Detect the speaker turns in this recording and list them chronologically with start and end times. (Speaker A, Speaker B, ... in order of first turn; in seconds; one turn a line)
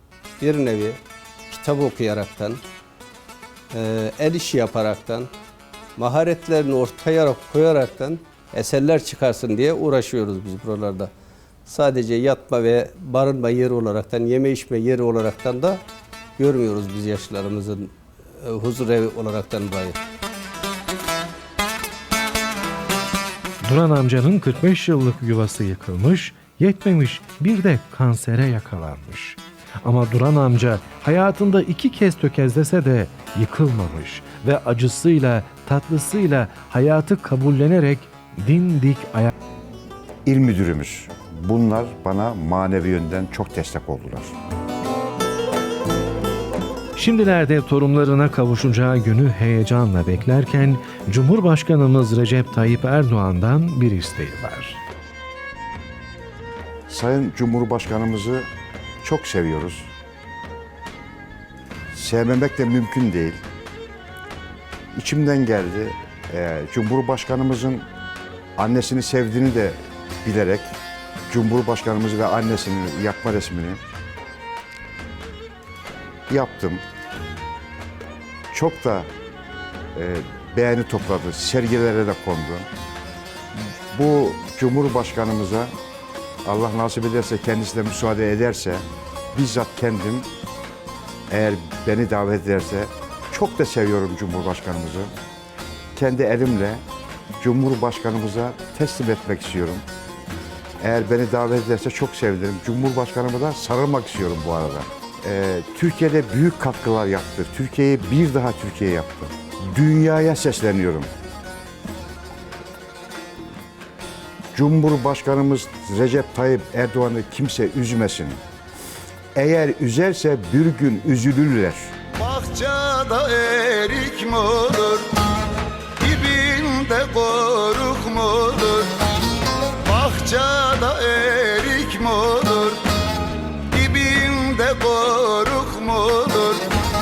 Speaker A: 0.4-2.6
Speaker A: 3.7-5.3
Speaker A: 6.0-11.1
Speaker A: 11.7-15.8
Speaker A: 16.4-20.0
Speaker B: 23.6-39.3
Speaker C: 40.3-44.4
Speaker B: 47.0-54.8
Speaker C: 56.9-58.5
Speaker C: 59.0-59.9
Speaker C: 61.9-63.4
Speaker C: 64.9-67.9
Speaker C: 68.6-70.7
Speaker C: 71.3-73.8
Speaker C: 76.3-76.8
Speaker C: 78.5-79.1
Speaker C: 80.0-82.7
Speaker C: 83.6-85.7
Speaker C: 86.5-88.8
Speaker C: 89.3-90.3
Speaker C: 91.3-95.1
Speaker C: 96.0-96.8
Speaker C: 97.4-99.8
Speaker C: 100.8-111.1
Speaker C: 114.5-118.4
Speaker C: 119.3-121.9
Speaker D: 122.1-125.1
Speaker D: 126.0-129.0
Speaker D: 129.8-132.8
Speaker D: 133.7-136.7